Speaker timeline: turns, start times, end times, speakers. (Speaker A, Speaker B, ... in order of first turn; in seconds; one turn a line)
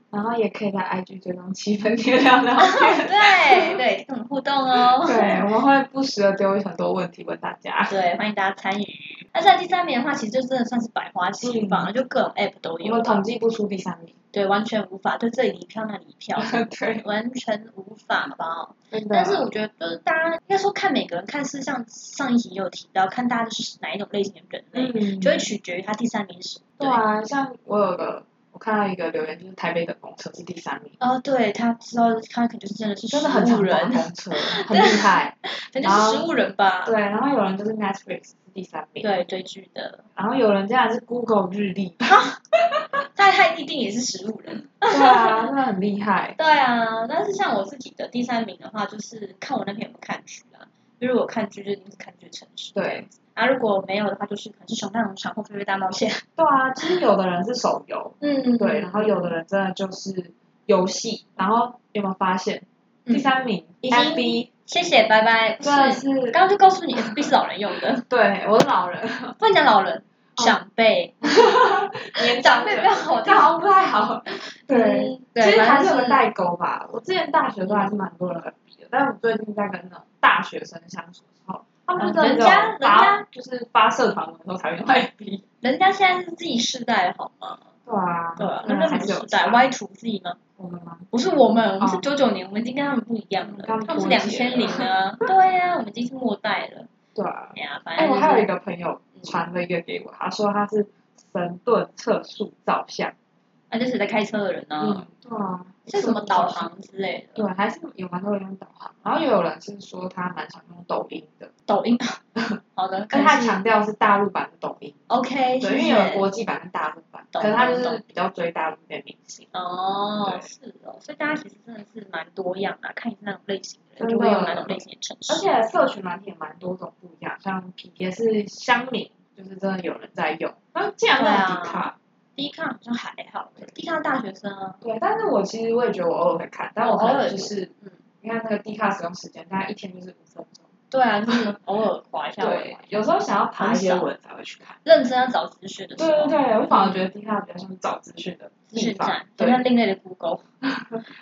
Speaker A: 0.1-3.8
Speaker B: 2.6-5.4
Speaker A: 5.0-7.9
Speaker B: 7.9-13.2
Speaker A: 11.4-11.9
Speaker A: 12.8-14.1
Speaker B: 14.3-27.0
Speaker A: 16.4-17.0
Speaker A: 18.9-19.5
Speaker A: 24.7-25.5
Speaker A: 26.8-30.9
Speaker B: 31.0-36.9
Speaker A: 33.1-36.3
Speaker A: 36.8-39.1
Speaker B: 39.0-40.0
Speaker A: 40.1-42.1
Speaker B: 42.1-42.4
Speaker B: 43.1-45.4
Speaker A: 44.9-46.4
Speaker B: 46.4-56.2
Speaker A: 52.7-53.1
Speaker A: 56.4-64.5
Speaker B: 58.2-59.2
Speaker B: 63.9-68.0
Speaker A: 65.6-66.3
Speaker A: 68.1-69.4
Speaker B: 69.4-71.3
Speaker A: 71.2-85.4
Speaker B: 72.2-73.5
Speaker B: 74.7-76.2
Speaker B: 82.0-83.2
Speaker B: 85.6-87.6
Speaker A: 87.8-89.7
Speaker B: 88.4-90.4
Speaker A: 90.6-91.1
Speaker B: 91.1-96.9
Speaker A: 93.4-94.9
Speaker A: 97.1-103.1
Speaker B: 97.5-98.5
Speaker B: 103.7-105.1
Speaker A: 104.8-106.7
Speaker B: 105.9-107.4
Speaker A: 107.3-111.5
Speaker B: 111.7-112.2
Speaker B: 112.8-113.6
Speaker A: 113.1-115.0
Speaker B: 115.1-116.2
Speaker A: 115.6-119.5
Speaker B: 117.3-118.0
Speaker B: 119.5-125.5
Speaker A: 124.0-131.9
Speaker B: 131.2-134.8
Speaker A: 134.8-137.7
Speaker B: 136.8-137.9
Speaker A: 138.2-140.7
Speaker B: 140.9-143.0
Speaker A: 142.4-144.8
Speaker B: 143.6-144.1
Speaker B: 144.8-147.0
Speaker A: 146.0-149.6
Speaker B: 148.7-150.4
Speaker A: 150.7-151.0